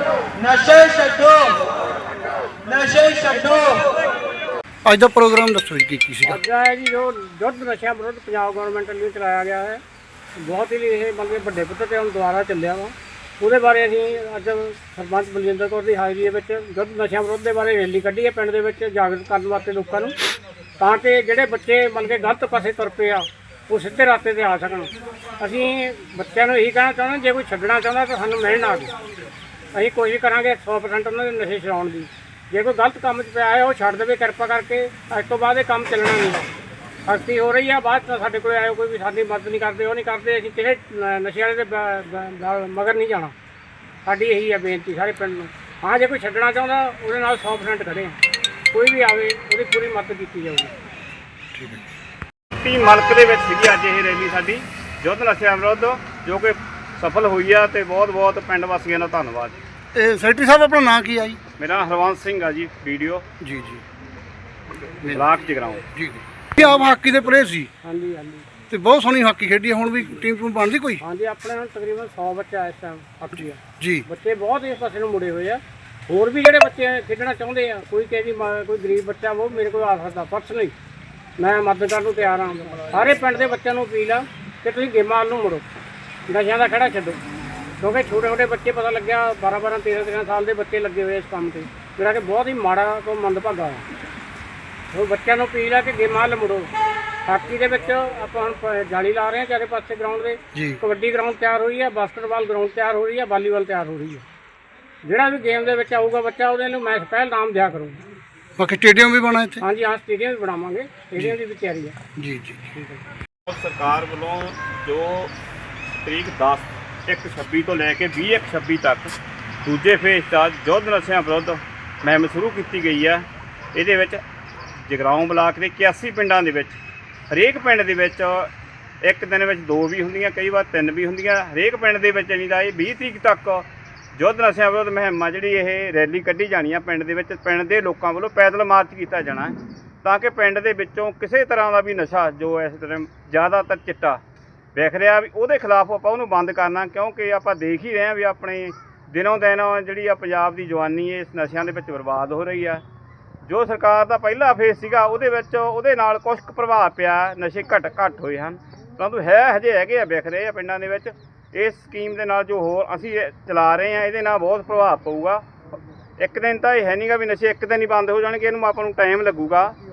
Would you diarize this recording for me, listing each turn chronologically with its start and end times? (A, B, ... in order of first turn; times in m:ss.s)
0:00.3-0:01.6 A
0:02.6-0:03.9 A
0:04.9-0:06.4 B
0:06.2-0:09.8 C
0:10.4-0:20.1 C
0:20.8-0:28.9 C
0:29.7-0:36.5 C
0:37.1-0:43.3 C
0:44.1-0:48.2 C
0:48.7-0:50.7 C
0:51.5-0:51.8 B
0:52.6-0:59.6 D
1:00.0-1:01.4 B
1:01.6-1:03.2 D
1:03.4-1:03.8 B
1:05.0-1:05.8 D
1:05.9-1:07.7 B
1:07.8-1:08.5 C
1:08.7-1:11.0 B
1:11.0-1:20.7 C
1:13.8-1:14.0 B
1:21.4-1:25.6 C
1:26.3-1:27.2 C
1:27.8-1:33.9 C
1:34.9-1:36.7 C
1:37.3-1:44.2 C
1:45.0-1:48.1 C
1:48.6-1:49.6 B
1:49.6-1:52.0 C
1:52.2-1:52.8 B
1:53.5-1:55.3 D
1:56.0-2:04.2 D
2:04.8-2:06.8 D
2:07.3-2:08.5 D
2:09.0-2:24.2 D
2:24.8-2:32.8 D
2:33.5-2:45.4 D
2:46.2-2:49.8 D